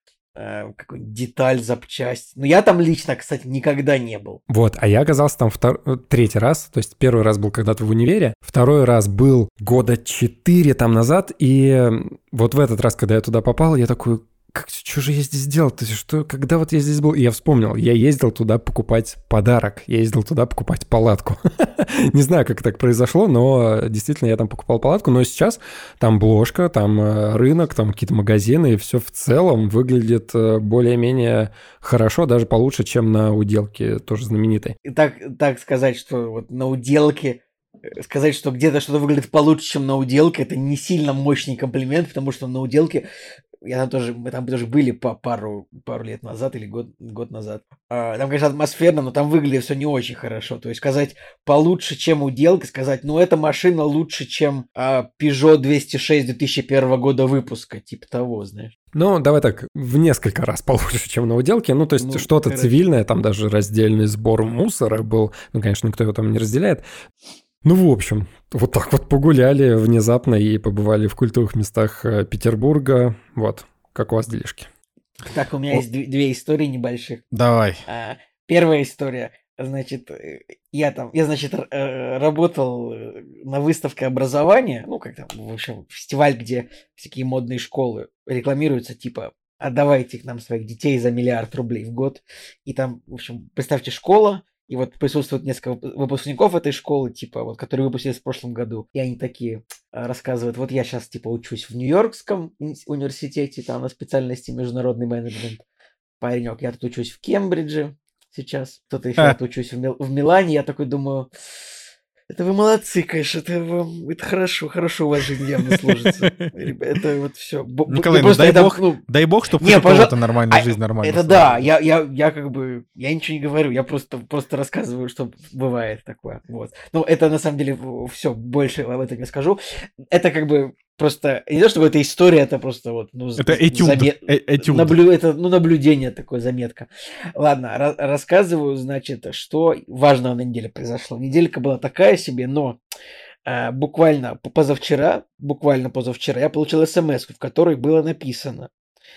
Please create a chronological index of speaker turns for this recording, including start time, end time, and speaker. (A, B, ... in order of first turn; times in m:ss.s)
0:00.4-0:04.4 A
0:04.5-0:34.8 B
0:34.8-0:37.4 A
0:38.0-0:43.0 A
0:43.6-0:58.7 A
0:58.9-1:06.8 B
1:02.0-1:02.7 A
1:07.6-1:14.7 B
1:15.2-1:17.2 A
1:17.3-1:17.8 C
1:17.9-1:45.6 A
1:46.2-1:51.3 A
1:52.3-1:59.0 A
1:55.7-1:56.5 C
1:57.9-2:01.6 C
1:59.6-2:09.6 A
2:10.1-2:22.8 A
2:13.4-2:15.0 C
2:23.5-2:28.7 A